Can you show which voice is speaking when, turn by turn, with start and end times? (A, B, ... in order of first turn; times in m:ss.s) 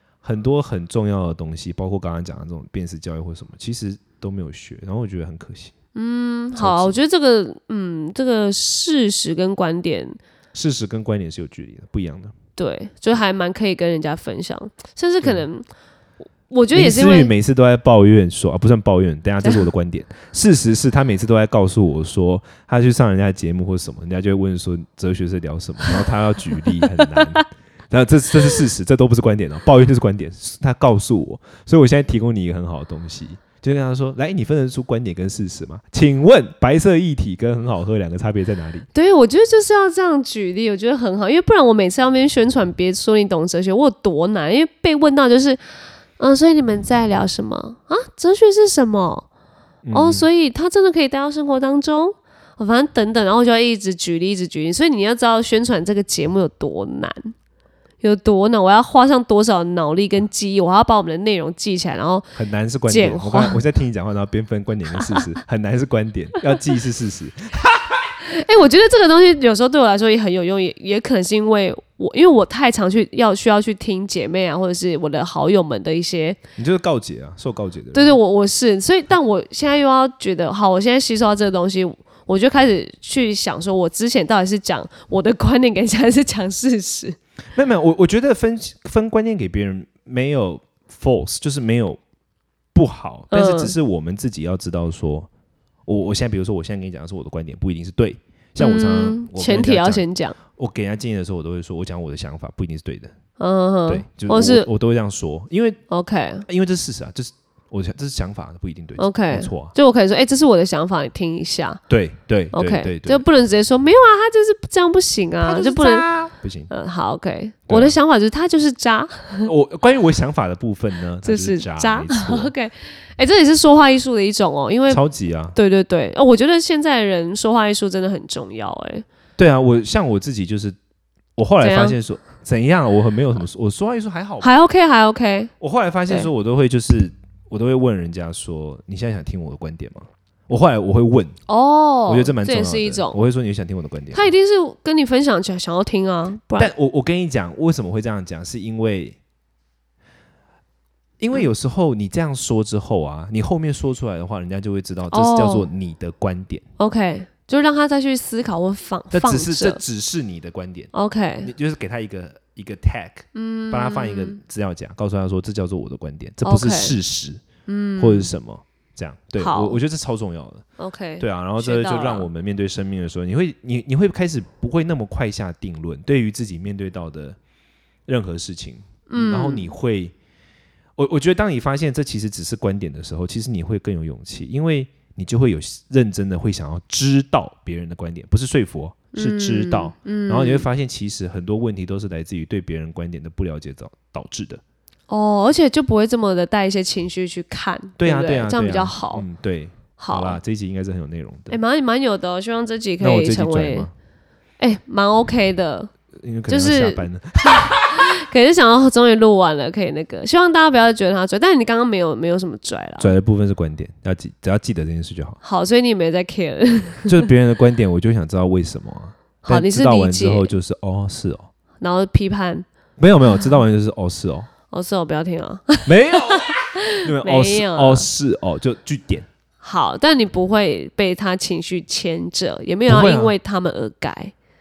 0:00.2-0:05.7 A
0:05.9-0:10.2 B
0:06.6-0:07.0 A
0:10.5-0:12.3 A
0:12.6-0:15.6 B
0:16.5-0:17.3 B
0:16.7-0:38.9 A
0:26.5-0:27.4 B
0:38.9-0:49.2 B
0:49.8-0:50.3 A
0:49.9-0:57.3 B
0:58.0-1:02.3 B
1:02.3-1:08.1 A
1:02.9-1:03.6 B
1:08.2-1:16.4 B
1:16.6-1:18.2 A
1:17.9-1:27.2 B
1:27.5-1:32.0 A
1:32.7-1:35.3 A
1:33.3-1:33.7 B
1:35.8-1:43.1 A
1:38.6-1:40.4 B
1:43.4-1:44.7 B
1:43.9-1:45.8 A
1:45.9-1:46.4 B
1:46.4-1:49.7 A
1:49.0-1:51.8 B
1:51.9-1:53.2 A
1:52.5-1:56.0 B
1:55.4-1:56.7 A
1:56.7-1:59.5 B
1:57.7-1:58.0 A
1:59.4-2:02.5 A
2:01.2-2:05.0 B
2:04.9-2:05.6 A
2:05.5-2:09.0 B
2:09.4-2:10.8 A
2:11.4-2:14.5 A
2:11.6-2:12.0 B
2:14.4-2:15.5 B
2:15.6-2:21.4 A
2:21.5-2:23.1 B
2:22.1-2:24.3 A
2:24.1-2:26.7 B
2:26.6-2:29.2 A
2:31.2-2:36.6 A
2:35.1-2:35.7 B
2:36.8-2:39.8 B
2:39.1-2:47.4 A
2:40.9-2:41.5 B
2:43.3-2:44.4 B
2:46.4-2:47.0 B
2:47.6-2:48.3 B
2:48.0-2:50.6 A
2:49.4-2:49.8 B
2:50.8-2:52.3 B
2:51.2-2:57.4 A
2:58.1-3:00.1 A
2:59.1-2:59.7 B
3:01.0-3:14.6 A
3:09.1-3:10.7 B
3:15.1-3:19.2 B
3:18.0-3:21.6 A
3:20.0-3:20.4 B
3:21.5-3:23.9 B
3:23.0-3:23.9 A
3:24.6-3:25.9 B
3:26.2-3:28.1 A
3:26.5-3:27.0 B
3:28.0-3:33.1 B
3:33.0-3:35.4 A
3:35.4-3:37.3 B
3:37.0-3:41.5 A
3:39.4-3:40.5 B
3:41.8-3:42.6 B
3:43.0-3:44.5 A
3:44.7-3:48.1 B
3:45.8-3:49.3 A
3:49.6-3:54.3 B
3:52.9-3:53.3 A